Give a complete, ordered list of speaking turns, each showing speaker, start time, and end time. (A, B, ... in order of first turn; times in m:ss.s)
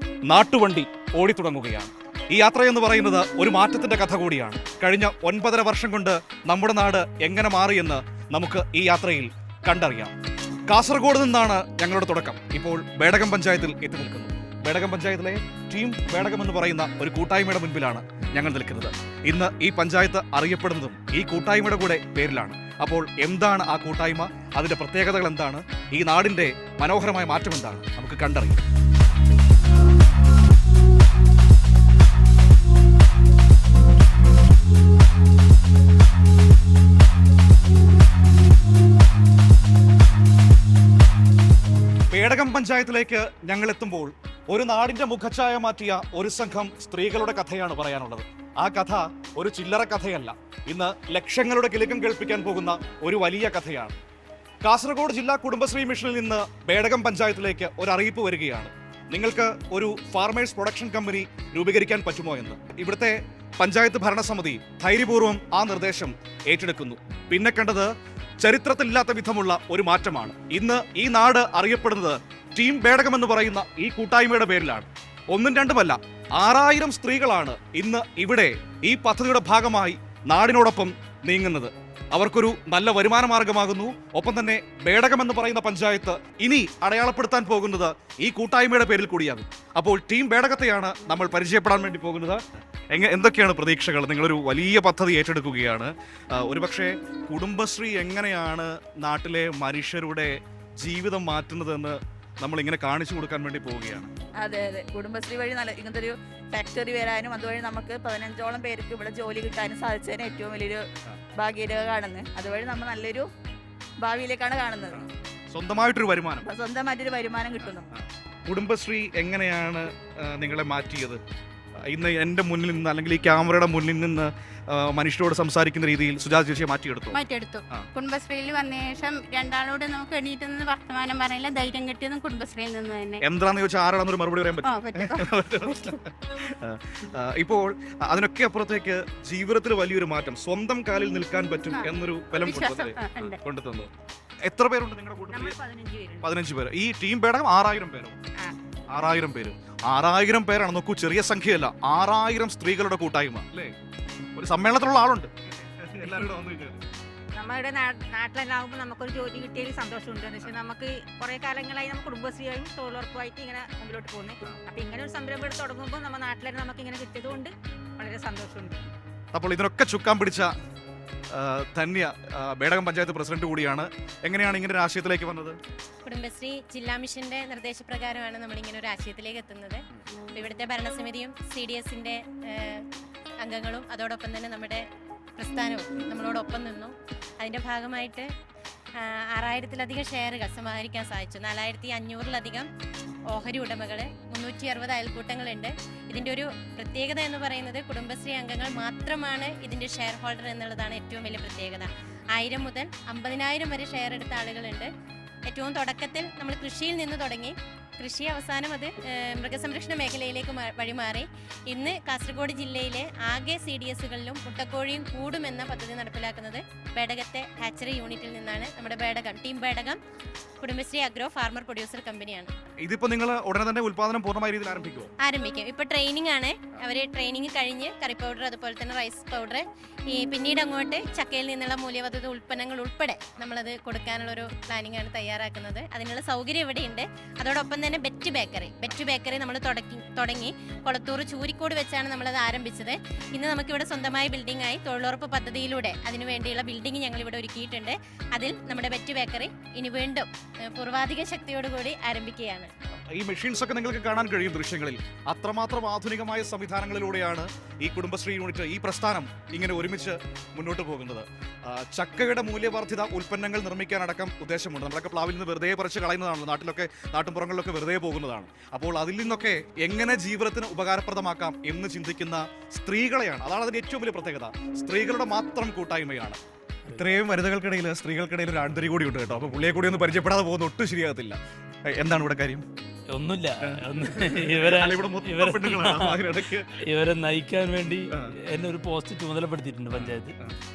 0:00.3-0:10.1 A
0:10.7-0:28.6 A
0:42.1-0:54.0 A
0:54.6-1:07.9 A
1:08.4-1:32.4 A
1:32.9-1:44.1 A
1:44.4-1:50.8 B
1:51.4-1:53.3 B
1:54.0-1:55.0 B
1:55.0-1:56.5 A
1:56.4-1:57.9 B
1:57.6-2:01.2 A
2:01.9-2:07.2 A
2:07.1-2:13.2 C
2:13.2-2:23.9 A
2:14.6-2:15.3 C
2:21.7-2:23.4 C
2:24.4-2:25.6 A
2:25.3-2:26.3 D
2:26.2-2:28.2 A
2:28.9-2:33.7 A
2:34.4-2:36.8 A
2:36.1-2:36.3 D
2:37.4-2:48.8 D
2:49.3-2:50.5 A
2:51.3-2:55.6 A
2:56.0-2:59.8 E
3:00.3-3:02.8 E
3:03.4-3:04.8 E
3:05.4-3:08.3 E
3:09.0-3:12.7 E
3:13.3-3:24.9 E
3:25.5-3:40.0 E
3:40.6-3:42.5 E
3:42.8-3:45.1 A
3:45.2-4:12.7 E
4:13.1-4:36.4 A
4:36.9-4:42.6 A
4:43.1-4:50.4 F
4:43.6-4:46.8 A
4:49.9-4:50.6 A